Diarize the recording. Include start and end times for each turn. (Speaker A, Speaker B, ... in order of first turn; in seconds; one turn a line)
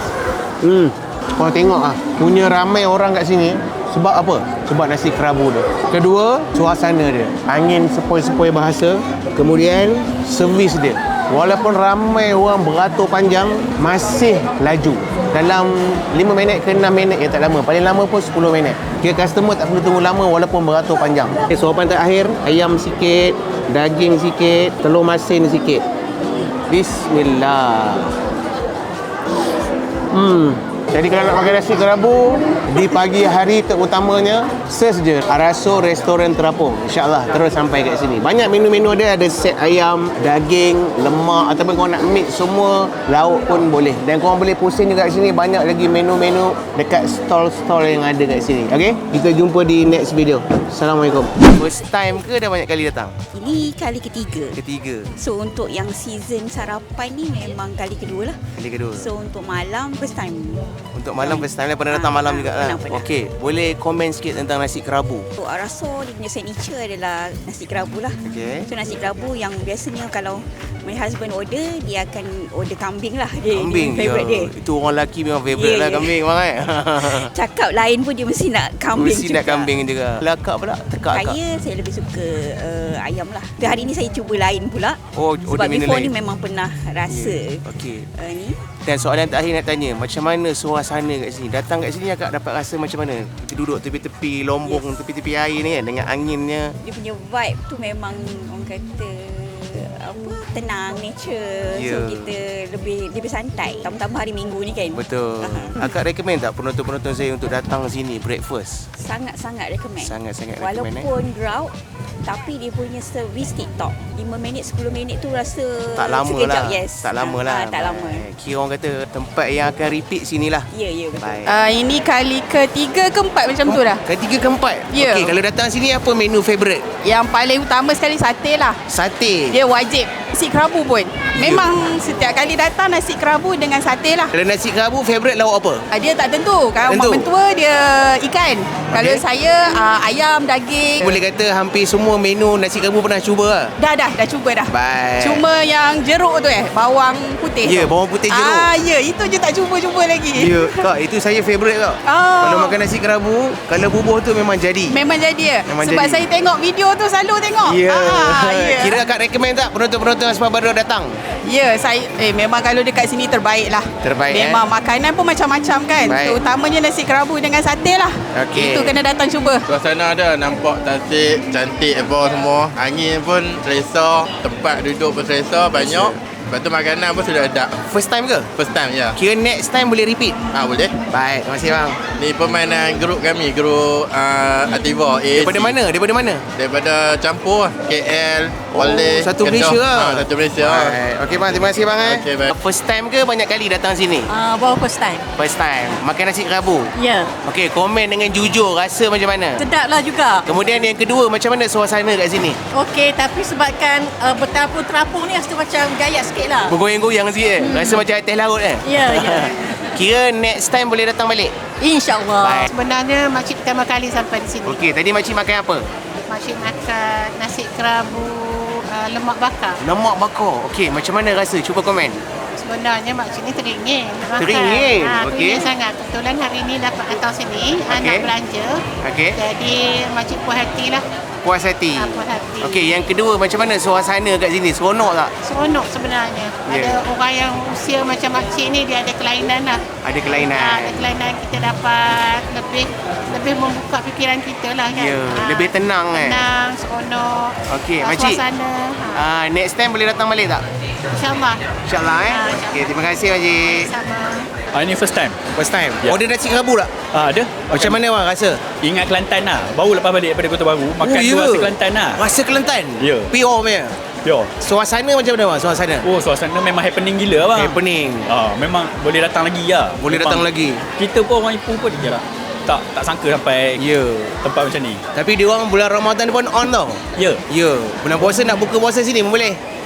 Speaker A: 0.6-25.8
Speaker A: 26.6-28.1
Speaker A: 30.1-53.2
Speaker B: 53.3-54.6
Speaker A: 54.5-55.1
Speaker B: 55.1-63.1
Speaker A: 58.5-59.1
Speaker A: 60.9-65.3
Speaker B: 65.4-74.5
Speaker A: 68.2-68.7
Speaker A: 73.5-77.3
Speaker B: 75.5-76.2
Speaker B: 77.0-79.8
Speaker A: 78.9-81.4
Speaker B: 81.1-88.7
Speaker A: 85.1-86.1
Speaker A: 87.1-88.1
Speaker A: 88.8-96.8
Speaker B: 94.6-94.9
Speaker B: 96.8-105.8
Speaker A: 101.7-102.3
Speaker A: 104.9-108.9
Speaker B: 108.9-118.3
Speaker A: 110.0-111.1
Speaker A: 116.0-120.7
Speaker B: 120.7-121.5
Speaker A: 121.2-121.5
Speaker C: 121.5-124.0
Speaker A: 123.6-126.8
Speaker C: 124.9-125.3
Speaker C: 127.0-128.8
Speaker A: 128.9-129.6
Speaker C: 129.5-134.3
Speaker A: 131.3-131.7
Speaker A: 134.3-135.8
Speaker C: 135.9-141.2
Speaker A: 136.9-137.3
Speaker A: 138.9-139.2
Speaker A: 141.0-143.8
Speaker C: 143.8-150.8
Speaker A: 144.7-145.4
Speaker A: 147.6-148.7
Speaker A: 150.3-155.0
Speaker C: 152.0-152.8
Speaker C: 154.9-159.0
Speaker A: 155.7-156.3
Speaker A: 157.6-161.2
Speaker C: 161.4-169.6
Speaker A: 164.0-164.7
Speaker A: 166.1-166.4
Speaker A: 168.3-168.9
Speaker D: 169.6-177.8
Speaker A: 175.7-176.2
Speaker A: 177.8-178.5
Speaker D: 178.5-179.2
Speaker A: 179.1-180.4
Speaker D: 180.5-180.9
Speaker A: 181.1-182.0
Speaker D: 182.1-185.8
Speaker A: 185.3-186.4
Speaker D: 186.5-192.5
Speaker A: 188.7-194.3
Speaker E: 194.3-195.2
Speaker A: 195.3-199.6
Speaker E: 196.9-197.3
Speaker E: 199.6-200.8
Speaker A: 200.4-202.6
Speaker E: 202.7-206.7
Speaker A: 206.7-211.6
Speaker E: 207.6-207.9
Speaker E: 208.8-209.7
Speaker E: 211.8-212.6
Speaker A: 212.4-212.7
Speaker F: 212.7-214.8
Speaker A: 214.6-215.9
Speaker F: 216.2-219.8
Speaker A: 219.8-222.2
Speaker F: 222.6-228.8
Speaker A: 224.4-225.6
Speaker A: 227.9-228.3
Speaker A: 229.0-229.4
Speaker F: 229.3-231.0
Speaker A: 231.4-235.3
Speaker F: 231.9-232.9
Speaker F: 235.4-239.9
Speaker A: 236.7-237.0
Speaker A: 240.0-241.0
Speaker F: 240.5-249.2
Speaker A: 244.9-246.4
Speaker A: 247.7-248.4
Speaker A: 249.1-250.6
Speaker F: 251.2-251.6
Speaker A: 251.8-253.9
Speaker F: 252.2-253.0
Speaker F: 253.8-254.5
Speaker G: 254.7-255.4
Speaker A: 255.5-256.9
Speaker G: 257.1-258.0
Speaker A: 257.7-258.6
Speaker G: 258.8-262.2
Speaker A: 261.0-264.0
Speaker G: 263.0-263.3
Speaker G: 264.2-264.5
Speaker A: 264.6-266.1
Speaker G: 266.0-273.8
Speaker A: 267.5-268.3
Speaker A: 270.0-270.8
Speaker A: 273.8-274.4
Speaker G: 274.4-275.0
Speaker A: 275.1-279.6